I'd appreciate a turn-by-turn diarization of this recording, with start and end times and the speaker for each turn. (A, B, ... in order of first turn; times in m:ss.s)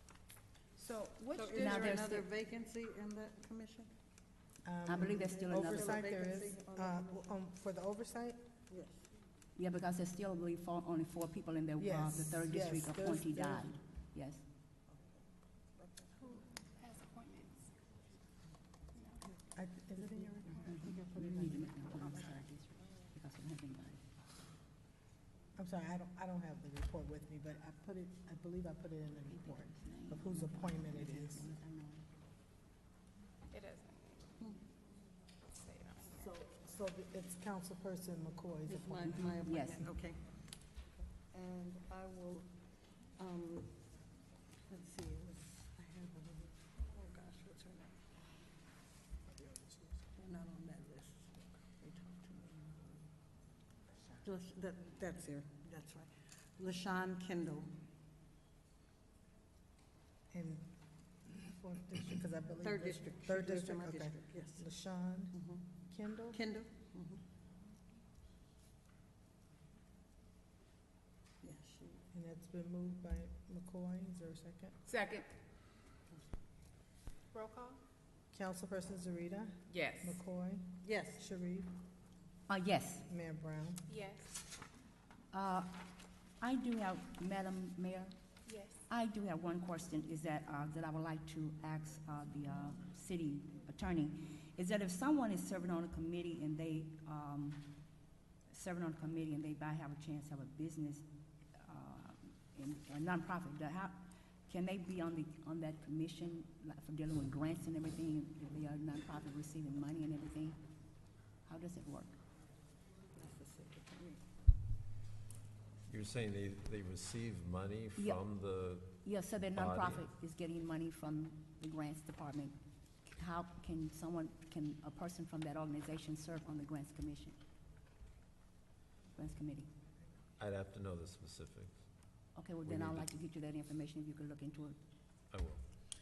0:00.8-0:02.0 A
0:01.4-0:03.9 B
0:01.6-0:02.3 C
0:04.6-0:08.4 D
0:04.9-0:06.0 C
0:05.1-0:07.3 B
0:08.7-0:09.0 B
0:09.6-0:14.4 C
0:11.8-0:13.8 D
0:14.9-0:15.2 B
0:15.8-0:16.1 B
0:16.2-0:17.7 E
0:19.0-0:19.2 E
0:19.5-0:22.0 D
0:20.2-0:21.0 B
0:20.7-0:24.1 C
0:25.6-0:31.5 D
0:29.3-0:32.0 C
0:33.5-0:34.3 E
0:35.6-0:36.3 E
0:36.1-0:39.5 D
0:38.7-0:42.5 B
0:39.3-0:39.9 C
0:43.2-0:43.8 B
0:44.7-0:48.1 B
0:50.1-0:53.0 B
0:54.2-0:57.7 B
1:00.3-1:00.7 D
1:01.3-1:05.4 D
1:02.6-1:04.6 B
1:05.3-1:05.7 B
1:05.9-1:06.4 D
1:06.3-1:07.2 B
1:11.4-1:12.0 B
1:12.1-1:14.8 D
1:14.9-1:15.3 A
1:17.3-1:17.8 E
1:18.3-1:21.7 D
1:19.7-1:20.2 A
1:20.8-1:21.2 B
1:22.5-1:23.1 C
1:23.1-1:23.8 D
1:23.9-1:24.4 E
1:25.3-1:28.2 C
1:28.5-1:28.8 E
1:28.9-1:37.8 C
1:38.5-1:41.0 C
1:41.6-1:44.0 C
1:44.5-1:50.6 C
1:51.4-1:52.2 C
1:53.2-1:54.2 B
1:55.9-2:00.0 F
1:58.0-1:58.2 C
1:59.0-2:07.4 C
2:09.2-2:09.7 C
2:10.4-2:13.1 F
2:12.3-2:14.8 C
2:15.3-2:15.6 F